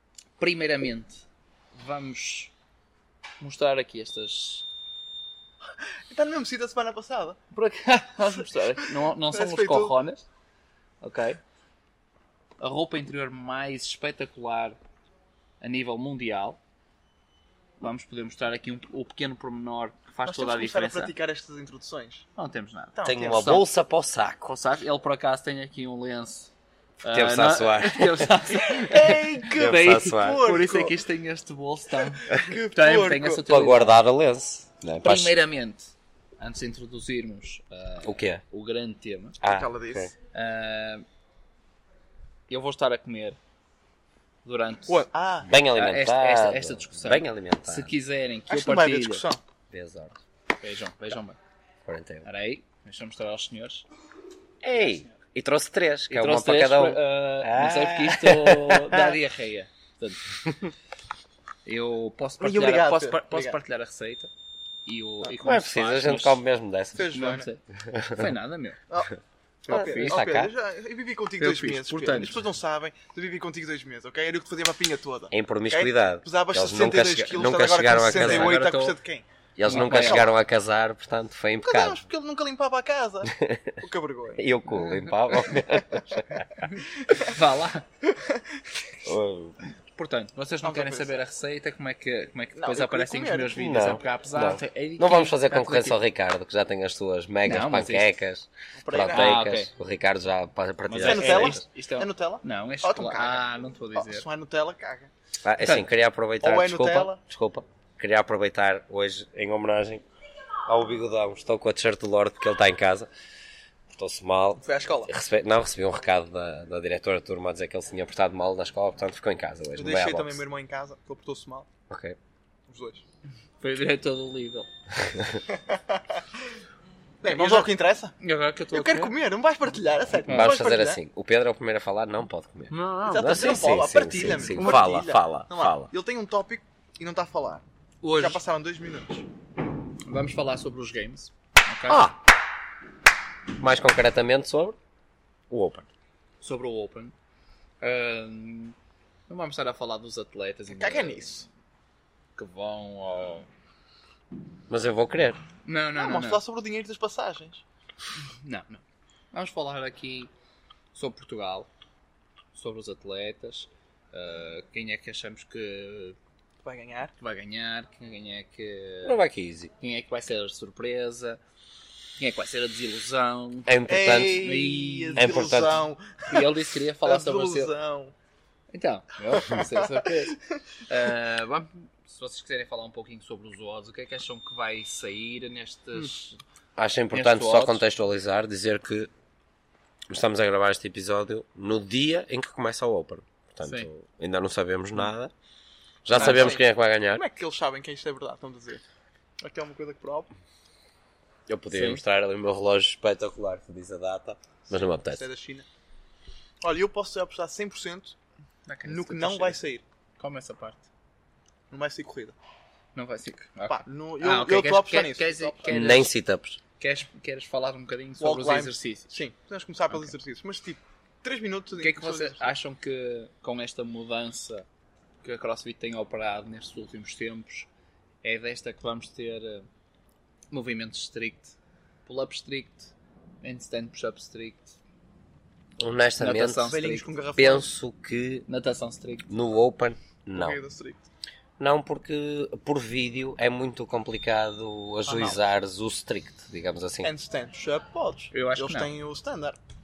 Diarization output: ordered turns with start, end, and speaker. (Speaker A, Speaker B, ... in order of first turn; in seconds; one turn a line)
Speaker A: 0.4-2.5
Speaker A: 3.4-4.7
Speaker B: 6.1-7.4
Speaker A: 7.5-10.2
Speaker B: 8.8-10.0
Speaker A: 11.0-11.4
Speaker A: 12.6-14.8
Speaker A: 15.6-16.6
Speaker A: 17.8-21.1
Speaker B: 20.2-22.3
Speaker A: 22.4-23.6
Speaker B: 22.9-23.6
Speaker C: 23.0-24.5
Speaker A: 24.4-26.5
Speaker A: 27.0-33.9
Speaker C: 27.1-28.4
Speaker B: 28.6-31.0
Speaker C: 29.5-30.5
Speaker B: 32.1-33.5
Speaker C: 33.5-35.4
Speaker A: 35.0-39.4
Speaker C: 38.0-38.4
Speaker C: 39.4-40.1
Speaker B: 39.5-40.1
Speaker A: 40.3-41.1
Speaker A: 42.5-43.4
Speaker A: 44.5-49.2
Speaker B: 44.9-45.5
Speaker C: 45.5-47.9
Speaker B: 48.5-49.4
Speaker C: 49.7-50.2
Speaker A: 50.6-51.4
Speaker C: 51.9-52.3
Speaker A: 52.2-53.9
Speaker C: 54.6-59.1
Speaker A: 56.1-60.3
Speaker C: 60.5-60.7
Speaker A: 61.6-64.3
Speaker B: 62.4-63.6
Speaker A: 64.9-66.4
Speaker C: 65.4-67.2
Speaker B: 66.9-67.5
Speaker A: 67.0-68.8
Speaker C: 67.9-68.3
Speaker B: 68.9-79.2
Speaker A: 69.7-70.2
Speaker C: 69.7-70.5
Speaker A: 71.4-72.4
Speaker C: 75.3-78.6
Speaker A: 78.1-79.0
Speaker C: 79.6-82.0
Speaker A: 79.6-80.3
Speaker B: 79.8-80.3
Speaker B: 81.6-85.9
Speaker C: 83.2-83.8
Speaker C: 84.4-86.7
Speaker B: 86.8-87.4
Speaker A: 87.1-87.9
Speaker B: 88.2-88.6
Speaker C: 89.0-89.6
Speaker A: 89.9-96.0
Speaker B: 90.6-91.2
Speaker B: 92.6-94.0
Speaker C: 93.5-101.6
Speaker A: 97.5-98.1
Speaker B: 98.8-99.3
Speaker A: 99.1-99.7
Speaker A: 100.9-104.3
Speaker B: 101.0-105.1
Speaker C: 105.4-110.0
Speaker A: 105.6-105.9
Speaker B: 106.4-107.2
Speaker C: 110.7-113.1
Speaker C: 114.0-120.4
Speaker B: 114.6-115.1
Speaker B: 119.8-121.7
Speaker C: 121.9-122.2
Speaker B: 122.7-123.0
Speaker A: 123.6-124.7
Speaker C: 125.0-125.4
Speaker B: 125.5-126.0
Speaker B: 127.2-128.2
Speaker A: 127.2-127.7
Speaker A: 128.2-129.1
Speaker B: 128.7-131.0
Speaker A: 130.3-130.5
Speaker C: 130.3-135.9
Speaker A: 132.7-133.4
Speaker B: 133.1-139.3
Speaker A: 134.6-134.9
Speaker A: 138.0-138.4
Speaker A: 140.1-142.1
Speaker C: 141.9-142.2
Speaker C: 143.6-144.8
Speaker C: 145.5-145.9
Speaker A: 146.4-147.2
Speaker A: 147.8-148.8
Speaker A: 149.3-151.5
Speaker B: 150.7-151.5
Speaker A: 152.4-153.5
Speaker C: 154.7-155.4
Speaker A: 155.6-156.4
Speaker B: 156.0-157.6
Speaker A: 158.4-160.3
Speaker A: 160.9-161.7
Speaker A: 162.5-166.2
Speaker B: 166.6-167.1
Speaker A: 167.2-169.2
Speaker C: 169.0-169.7
Speaker A: 169.8-171.4
Speaker A: 172.2-175.3
Speaker C: 173.7-174.5
Speaker B: 173.9-178.1
Speaker C: 175.2-175.8
Speaker A: 176.3-177.7
Speaker A: 178.7-186.4
Speaker B: 179.4-180.4
Speaker C: 186.8-189.1
Speaker A: 187.1-187.8
Speaker C: 190.1-195.3
Speaker A: 193.6-193.9
Speaker C: 196.0-197.2
Speaker B: 196.1-198.8
Speaker A: 196.1-196.5
Speaker B: 199.4-200.3
Speaker C: 201.5-205.2
Speaker A: 201.7-202.0
Speaker B: 205.1-205.7
Speaker B: 206.6-208.2
Speaker A: 208.7-209.6
Speaker B: 208.8-209.8
Speaker A: 210.2-210.9
Speaker B: 211.7-212.3
Speaker A: 212.9-216.1
Speaker B: 213.7-215.9
Speaker C: 215.7-216.6
Speaker A: 216.8-219.2
Speaker B: 218.2-222.5
Speaker A: 221.8-224.7
Speaker A: 225.2-227.7
Speaker A: 228.2-229.7
Speaker A: 230.5-231.6
Speaker A: 232.1-234.8
Speaker C: 235.8-236.7
Speaker A: 236.2-237.1
Speaker B: 236.7-237.7
Speaker C: 237.4-238.5
Speaker A: 238.5-239.3
Speaker C: 239.3-240.6
Speaker B: 240.3-241.1
Speaker C: 241.6-247.1
Speaker B: 245.1-245.4
Speaker B: 247.0-249.6
Speaker A: 248.3-248.9